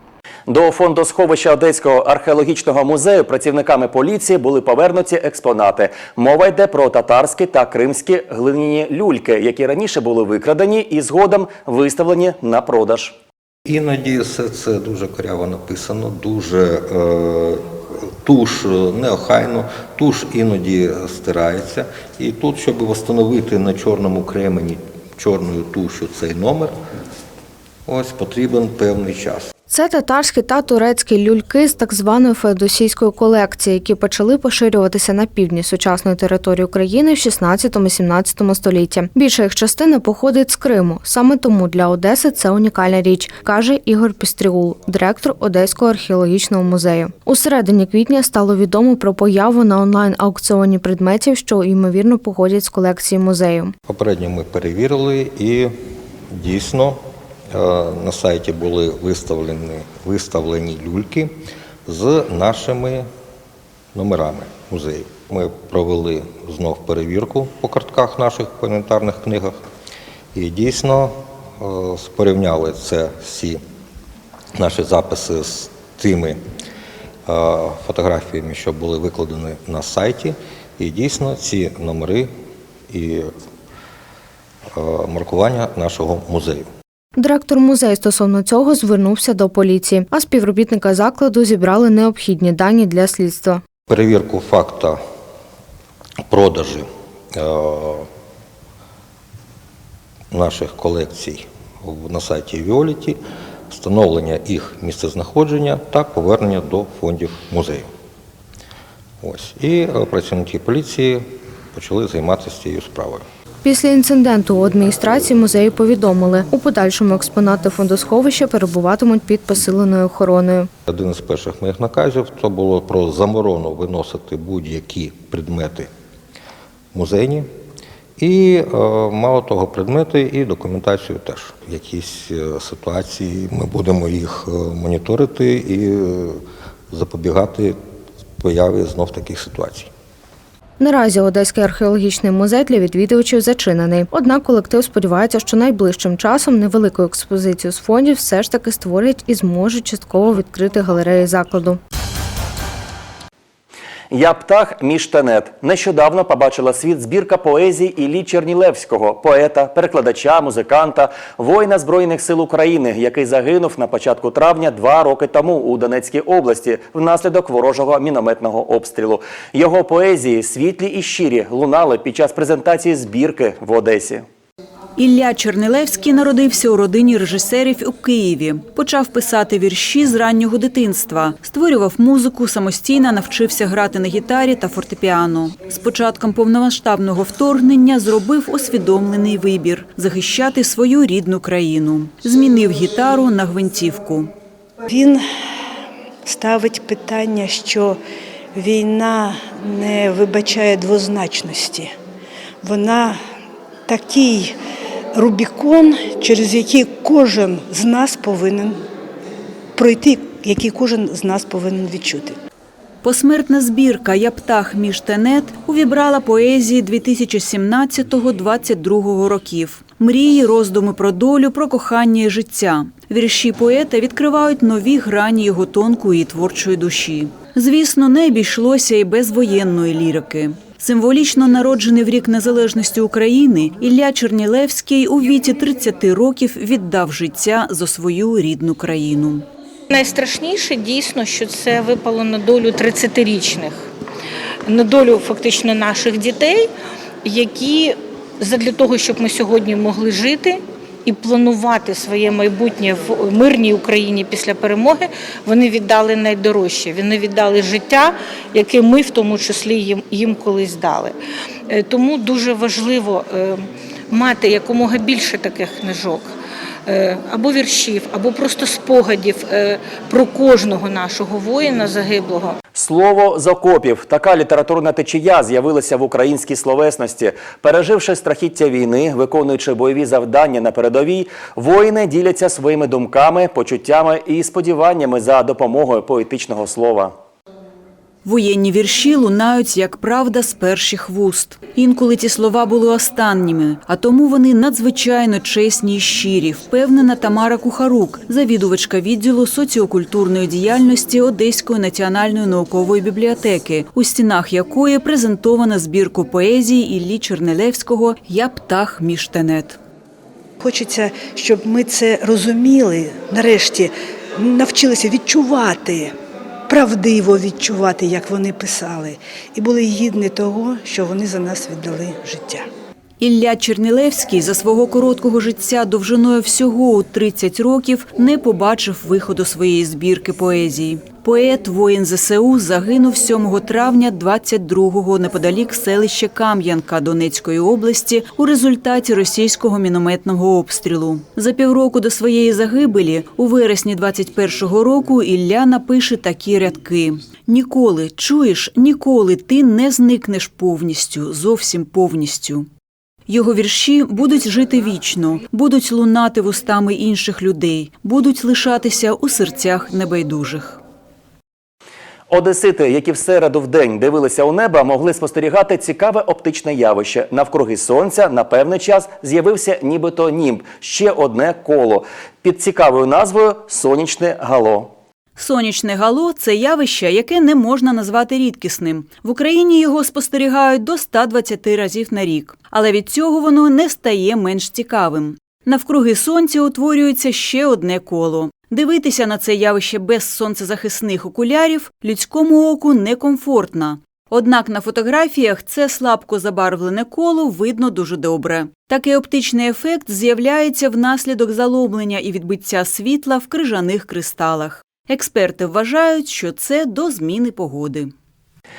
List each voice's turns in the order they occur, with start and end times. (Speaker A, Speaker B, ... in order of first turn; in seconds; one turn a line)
Speaker A: 0.5-13.2
Speaker B: 13.7-26.8
Speaker B: 27.9-29.5
Speaker C: 29.7-53.8
Speaker B: 53.9-55.8
Speaker B: 56.3-63.1
Speaker B: 63.9-69.6
Speaker B: 70.3-73.6
Speaker B: 74.5-76.4
Speaker B: 77.3-82.3
Speaker B: 82.9-83.3
Speaker B: 84.7-86.7
Speaker C: 87.2-93.6
Speaker B: 93.9-95.0
Speaker B: 96.3-98.1
Speaker B: 100.3-107.9
Speaker B: 109.2-113.2
Speaker C: 113.6-120.7
Speaker B: 120.9-125.9
Speaker B: 126.9-127.5
Speaker B: 128.2-137.8
Speaker B: 138.4-139.9
Speaker C: 140.8-151.8
Speaker A: 154.1-174.2
Speaker D: 175.0-194.3
Speaker E: 194.8-195.2
Speaker E: 196.2-198.0
Speaker E: 198.5-201.9
Speaker E: 202.6-203.2
Speaker E: 203.9-204.6
Speaker E: 205.1-208.8
Speaker E: 209.8-212.4
Speaker D: 213.0-239.4
Speaker F: 239.9-243.9
Speaker F: 244.7-246.7
Speaker F: 247.2-261.1
Speaker F: 261.7-266.3
Speaker F: 266.9-272.6
Speaker A: 272.8-287.1
Speaker D: 288.2-309.8
Speaker E: 310.6-316.1
Speaker E: 316.7-322.7
Speaker D: 323.2-352.7
Speaker D: 353.3-360.8
Speaker A: 362.3-374.9
Speaker D: 375.4-408.1